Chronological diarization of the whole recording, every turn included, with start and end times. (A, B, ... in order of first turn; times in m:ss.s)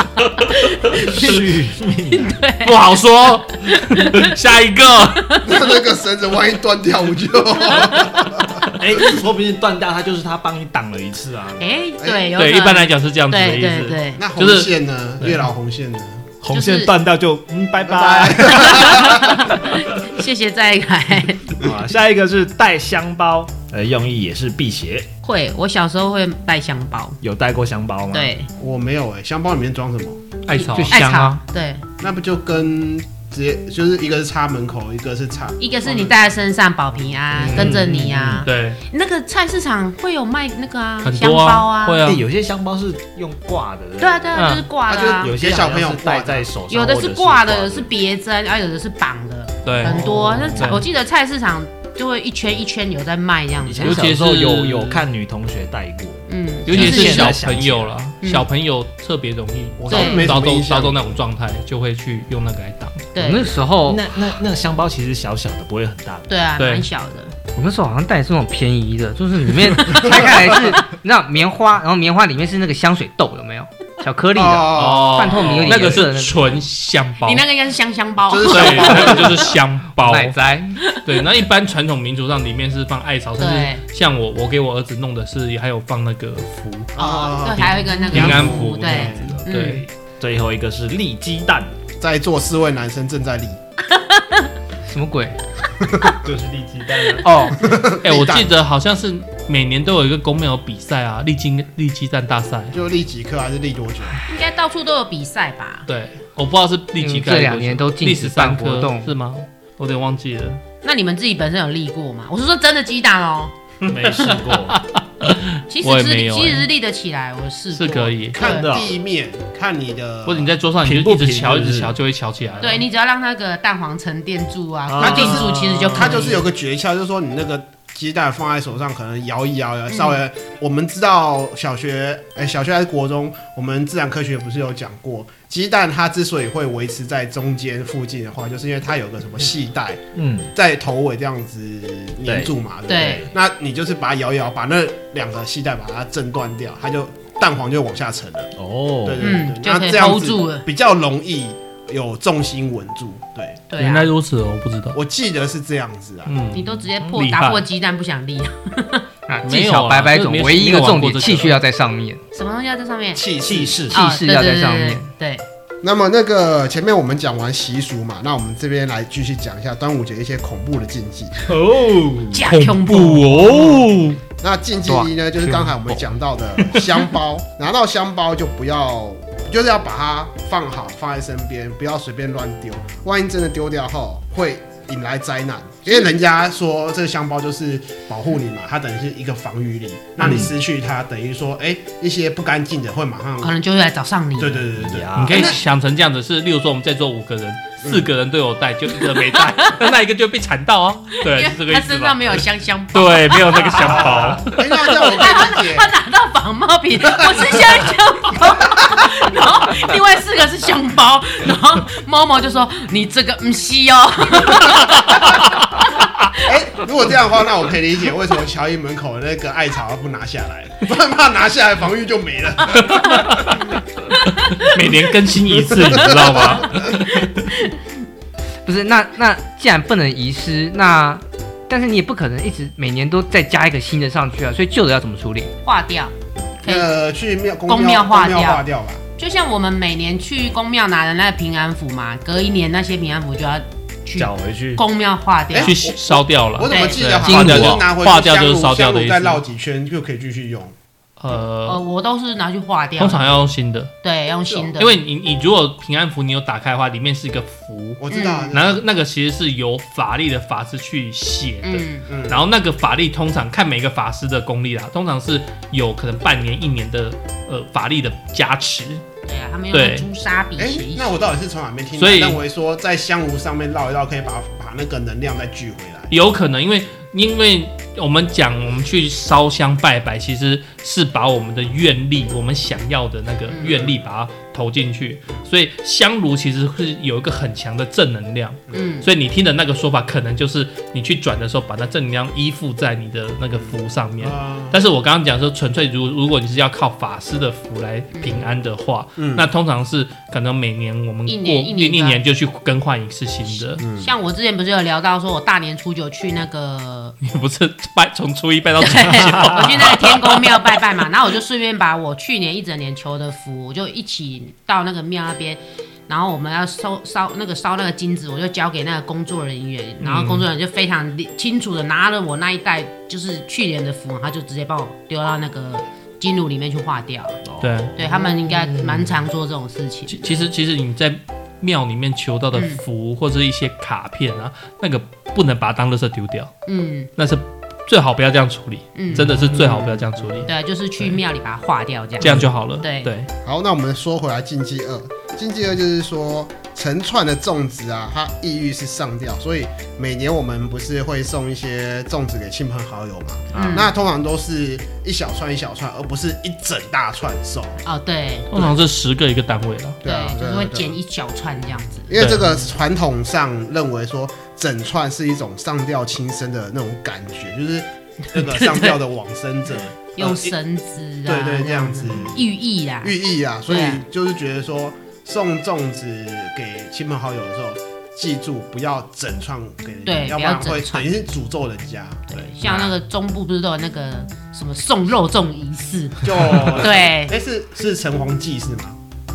0:00.4-0:01.5 A
0:00.9-0:02.4 B
0:02.1-0:02.9 A
0:02.6-0:05.3 C
0:03.6-0:04.3 A
0:05.4-0:08.6 D
0:07.8-0:08.1 A
0:08.8-0:11.9 B
0:11.6-0:14.2 A
0:12.0-0:12.3 D
0:12.4-0:15.5 C
0:14.2-0:16.3 D
0:16.4-0:19.0 B
0:16.5-0:16.9 A
0:17.8-0:19.2 D
0:18.4-0:21.6 A
0:21.6-0:25.1 B
0:25.2-0:27.2 A
0:27.2-0:28.3 B
0:28.1-0:28.5 A
0:28.6-0:30.2 D
0:30.5-0:31.2 C
0:30.6-0:31.8 A
0:30.7-0:31.4 E
0:32.0-0:36.2 D
0:35.6-0:42.0 A
0:37.5-0:37.9 C
0:37.5-0:38.4 B
0:38.4-0:38.8 C
0:41.0-0:42.2 C
0:42.0-0:44.4 B
0:44.0-0:45.3 A
0:44.9-0:46.5 D
0:45.2-0:47.9 B
0:46.7-0:54.0 A
0:49.6-0:50.8 C
0:49.8-0:50.8 B
0:53.6-0:57.9 B
0:53.8-0:55.1 C
0:56.3-0:57.4 A
0:56.7-1:03.1 C
0:59.8-1:01.2 D
0:59.9-1:00.3 A
1:03.1-1:03.5 A
1:03.2-1:04.1 E
1:03.8-1:06.4 B
1:06.3-1:07.3 A
1:06.6-1:06.9 C
1:07.5-1:16.6 E
1:14.3-1:15.9 D
1:14.7-1:17.4 C
1:17.2-1:19.5 A
1:18.3-1:19.5 D
1:18.5-1:20.4 C
1:20.0-1:20.8 E
1:20.9-1:26.9 C
1:23.4-1:23.8 A
1:27.0-1:29.4 D
1:27.0-1:29.8 A
1:28.1-1:28.8 C
1:28.1-1:31.7 B
1:29.4-1:29.8 C
1:32.0-1:33.6 D
1:33.9-1:34.5 A
1:34.8-1:35.4 E
1:35.8-1:36.2 D
1:36.2-1:37.3 B
1:37.2-1:42.8 C
1:37.6-1:38.5 D
1:42.7-1:44.2 D
1:44.3-1:45.9 A
1:45.9-1:50.6 C
1:47.0-1:49.1 E
1:50.8-1:53.5 A
1:53.8-1:56.7 C
1:53.9-1:54.8 B
1:55.7-1:58.7 A
1:57.7-1:58.4 C
1:58.4-2:00.6 D
1:58.4-1:58.9 B
2:00.3-2:02.8 C
2:00.8-2:02.0 B
2:02.6-2:06.4 A
2:04.9-2:06.2 B
2:05.0-2:28.5 D
2:09.9-2:10.2 A
2:20.2-2:20.5 B
2:22.3-2:22.5 B
2:22.9-2:23.3 A
2:28.6-2:29.3 B
2:29.0-2:33.6 D
2:29.2-2:30.6 A
2:33.7-2:34.1 A
2:33.8-2:35.0 C
2:34.9-2:36.4 D
2:36.3-2:37.6 C
2:36.5-2:39.0 A
2:39.3-2:42.2 E
2:39.4-2:41.6 C
2:42.3-2:43.2 A
2:43.2-2:43.9 D
2:43.4-2:44.0 B
2:43.9-2:45.4 A
2:43.9-2:45.1 E
2:45.8-2:51.5 D
2:51.4-2:52.5 B
2:52.3-2:53.9 A
2:52.5-2:54.2 C
2:54.4-3:13.5 D
2:54.9-2:56.0 E
3:10.2-3:10.5 B
3:13.4-3:14.7 A
3:14.4-3:15.6 D
3:14.8-3:15.5 B
3:15.2-3:22.4 C
3:19.0-3:19.9 A
3:21.1-3:35.2 A
3:22.9-3:25.0 C
3:23.8-3:25.9 D
3:27.1-3:27.6 D
3:34.6-3:35.2 D
3:36.4-3:43.3 D
3:42.8-3:43.7 C
3:44.3-3:47.5 C
3:44.3-3:44.7 A
3:45.7-3:46.8 D
3:47.2-3:47.8 A
3:48.6-3:55.5 E
3:55.6-3:56.9 A
3:56.6-3:59.0 D
3:57.7-3:58.6 A
3:59.2-4:05.8 A
4:04.2-4:04.8 B
4:05.5-4:10.8 D
4:05.6-4:09.4 C
4:06.7-4:07.0 A
4:07.2-4:07.8 E
4:11.2-4:11.8 C
4:11.6-4:13.4 A
4:13.0-4:13.9 C
4:14.0-4:15.0 A
4:14.8-4:29.0 C
4:18.0-4:18.8 D
4:18.1-4:18.6 A
4:21.6-4:22.0 A
4:22.1-4:22.5 D
4:29.3-4:31.4 A
4:29.7-4:30.1 C
4:30.6-4:36.1 D
4:32.0-4:32.4 C
4:36.1-5:03.8 C
4:43.5-4:43.9 A
4:48.7-4:49.1 A
4:53.6-4:54.8 D
4:58.2-4:58.4 A
4:59.2-4:59.5 D
5:01.3-5:02.2 A
5:03.5-5:07.2 A
5:03.8-5:04.1 D
5:07.2-5:10.7 C
5:08.8-5:27.4 A
5:20.0-5:20.5 C
5:27.4-5:27.9 B
5:27.6-5:29.0 C
5:28.0-5:30.4 A
5:30.1-5:36.5 C
5:32.5-5:32.8 A
5:36.7-5:37.1 A
5:37.2-5:41.2 C
5:39.0-5:39.3 A
5:39.2-5:40.4 D
5:40.4-5:43.1 A
5:42.2-5:43.3 C
5:43.4-5:57.8 D
5:53.5-5:53.9 B
5:53.5-5:53.9 A
5:57.8-5:58.7 A
5:58.5-6:00.0 C
6:00.0-6:01.0 D
6:00.0-6:02.2 A
6:02.1-6:10.5 D
6:02.2-6:02.5 C
6:08.4-6:09.0 A
6:10.2-6:13.2 A
6:11.3-6:12.5 D
6:13.0-6:22.9 D
6:13.7-6:14.0 A
6:20.1-6:21.2 A
6:22.3-6:27.4 A
6:26.2-6:29.0 D